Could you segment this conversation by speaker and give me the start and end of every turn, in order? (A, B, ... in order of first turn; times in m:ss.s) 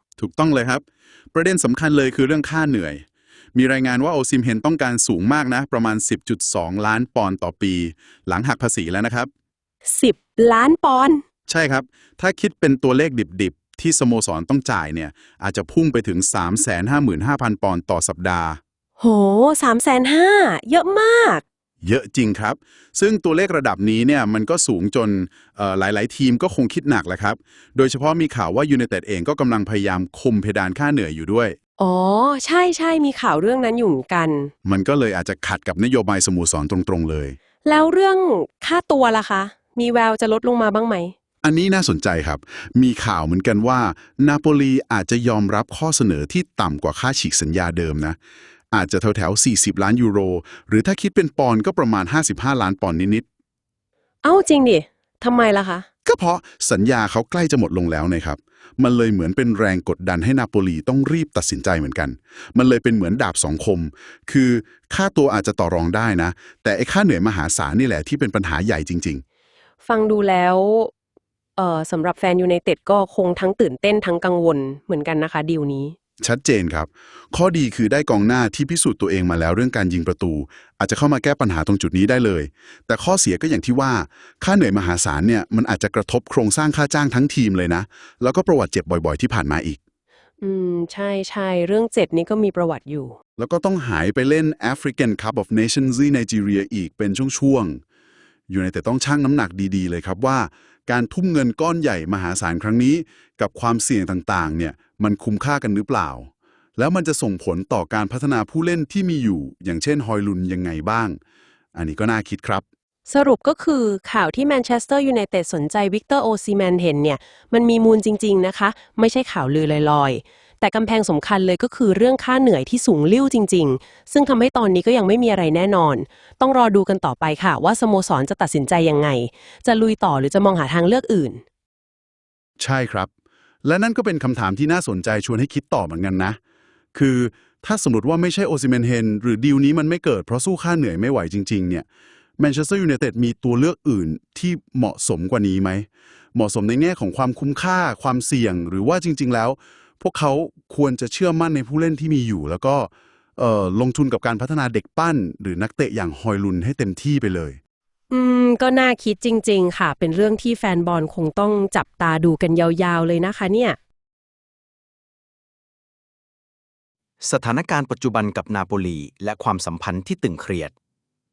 0:00.2-0:09.3 A
0:09.9-0:11.2 B
0:11.5-0:18.6 A
0:19.0-0:21.4 B
0:21.8-0:31.6 A
0:31.8-0:34.5 B
0:34.6-0:37.4 A
0:37.6-0:41.1 B
0:41.4-0:48.2 A
0:48.7-0:53.2 A
0:54.2-0:55.9 B
0:56.1-1:09.2 A
1:09.8-1:10.9 B
1:11.6-1:16.0 B
1:16.2-1:29.8 A
1:30.4-1:33.2 B
1:33.4-1:37.8 A
1:38.5-1:51.2 A
1:51.7-1:52.6 A
1:53.1-2:11.4 B
2:12.6-2:13.1 A
2:13.6-2:16.4 A
2:16.9-2:21.9 A
2:22.4-2:37.6 A
2:38.1-2:43.8 B
2:47.2-2:50.7 C